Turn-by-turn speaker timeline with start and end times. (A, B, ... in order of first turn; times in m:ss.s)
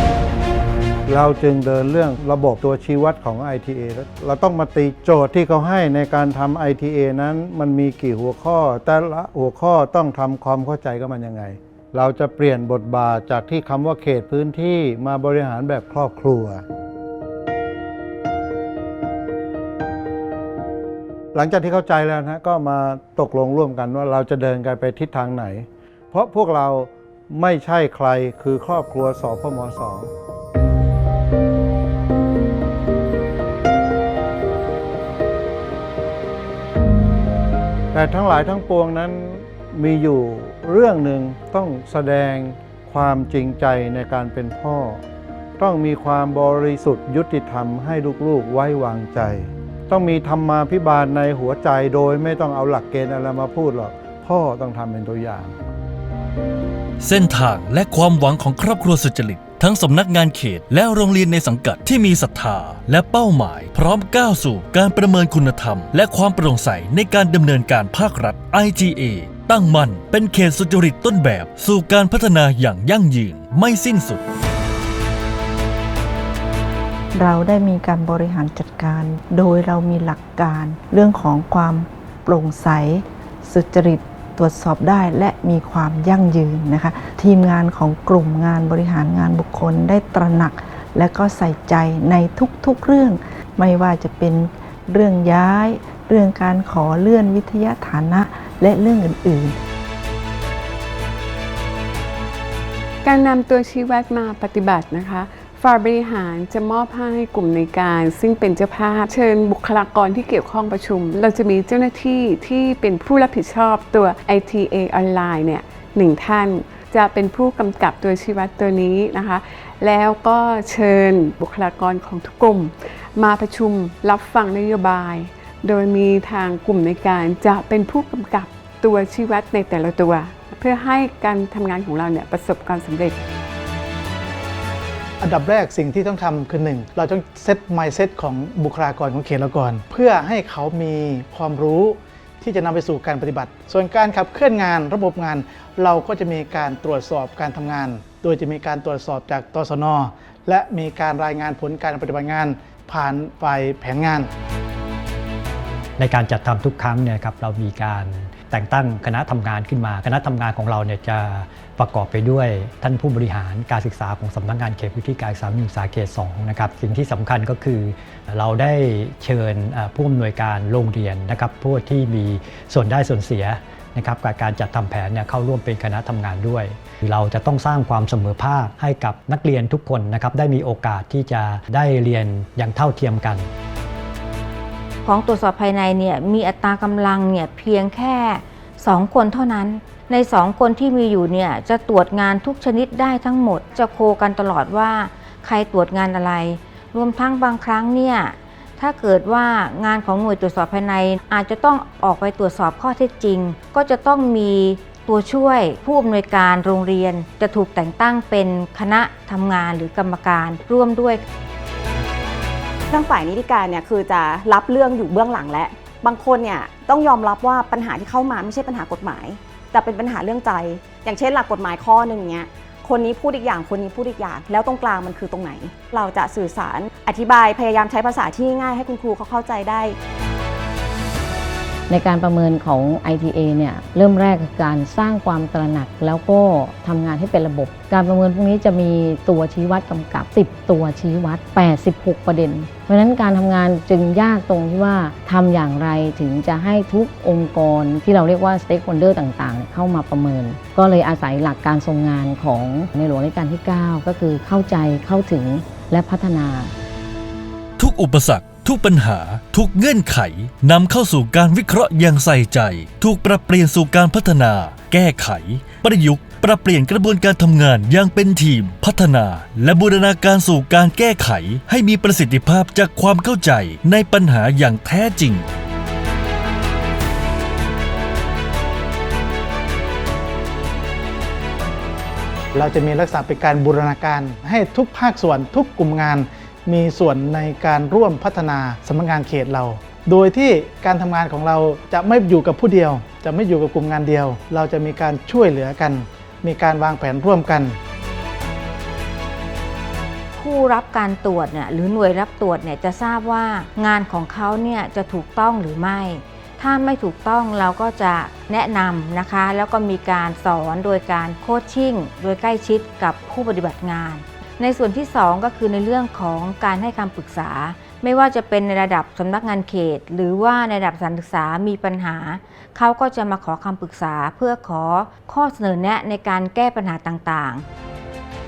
0:01.1-0:16.6 A
0:21.3-0:30.1 A
0:37.9-0:45.0 A
0:45.6-0:55.6 A
0:57.0-1:14.2 B
1:17.2-1:39.5 C
1:43.0-2:13.2 D
2:15.2-2:34.3 E
2:36.0-3:03.4 F
3:05.0-3:31.2 G
3:32.9-3:50.0 H
3:51.9-4:16.7 I
4:17.8-4:35.4 B
4:42.5-4:57.8 E
5:00.3-5:27.6 G